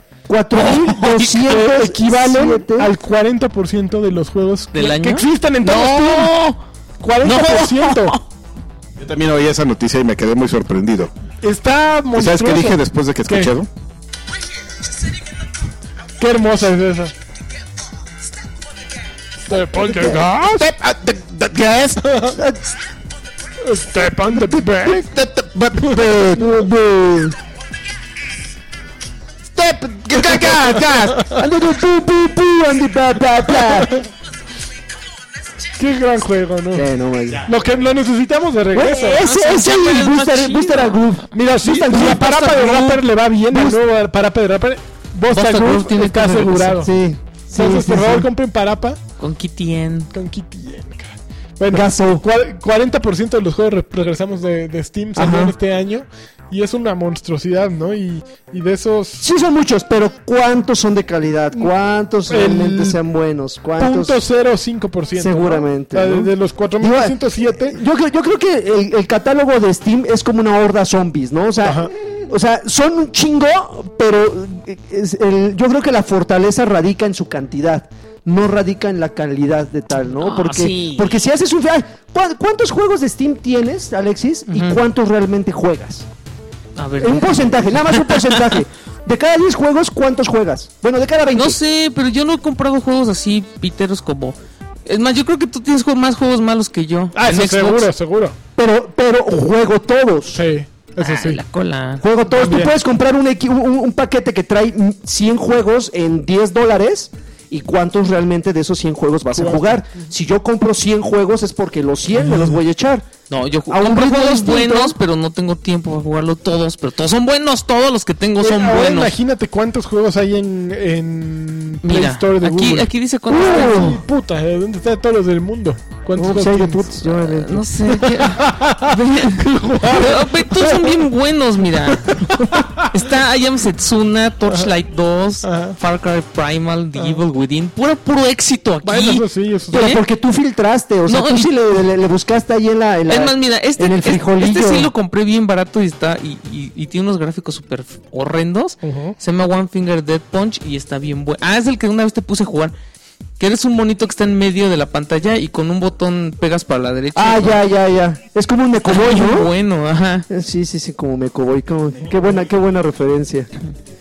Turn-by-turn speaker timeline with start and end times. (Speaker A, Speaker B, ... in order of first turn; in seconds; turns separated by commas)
Speaker A: 0.3-2.9, Speaker B: 0.5-1.3, Speaker C: 1.1-6.3, Speaker B: 4.7-6.6, Speaker C: 7.0-8.2, Speaker B: 7.2-8.2, Speaker D: 9.0-11.1, Speaker C: 11.4-13.5, Speaker D: 12.1-13.7, Speaker C: 16.2-17.1, Speaker C: 19.4-20.7, Speaker A: 19.7-20.2, Speaker D: 20.0-22.0, Speaker C: 22.0-22.4, Speaker A: 22.3-22.7, Speaker C: 23.6-25.1, Speaker D: 24.8-26.4, Speaker A: 26.0-27.4, Speaker D: 29.5-31.4, Speaker A: 31.2-33.9, Speaker C: 33.6-34.0, Speaker C: 35.8-36.9, Speaker A: 36.7-37.5, Speaker C: 37.4-39.2, Speaker A: 38.7-43.8, Speaker B: 39.1-41.0, Speaker C: 41.3-46.9, Speaker B: 45.3-46.8, Speaker A: 46.7-48.3, Speaker C: 47.5-49.0, Speaker B: 49.2-50.1, Speaker C: 50.1-59.2, Speaker A: 51.7-52.2, Speaker A: 55.1-55.5, Speaker A: 59.2-64.2, Speaker C: 62.3-63.0, Speaker C: 63.8-67.8, Speaker A: 65.1-86.1, Speaker C: 71.6-71.9, Speaker B: 80.2-81.2, Speaker B: 84.5-84.8, Speaker B: 86.8-88.5, Speaker A: 87.0-91.6, Speaker B: 91.3-97.9, Speaker C: 97.1-98.4, Speaker A: 98.5-100.4, Speaker C: 100.3-101.4, Speaker B: 101.0-102.0, Speaker A: 102.0-113.1, Speaker C: 102.3-102.7, Speaker C: 109.3-109.8, Speaker C: 112.2-112.6, Speaker B: 113.3-119.2, Speaker A: 113.7-115.0, Speaker C: 118.4-126.9, Speaker B: 121.8-124.0, Speaker A: 123.3-124.0, Speaker A: 126.1-128.0, Speaker B: 127.0-140.0, Speaker C: 127.9-130.9, Speaker C: 131.9-132.9, Speaker C: 135.4-135.8, Speaker C: 138.8-139.8, Speaker A: 139.7-144.9, Speaker B: 141.1-141.5, Speaker B: 143.1-152.7, Speaker C: 148.8-149.2, Speaker B: 153.4-157.6, Speaker A: 157.1-159.5, Speaker B: 158.8-160.3, Speaker A: 160.3-163.5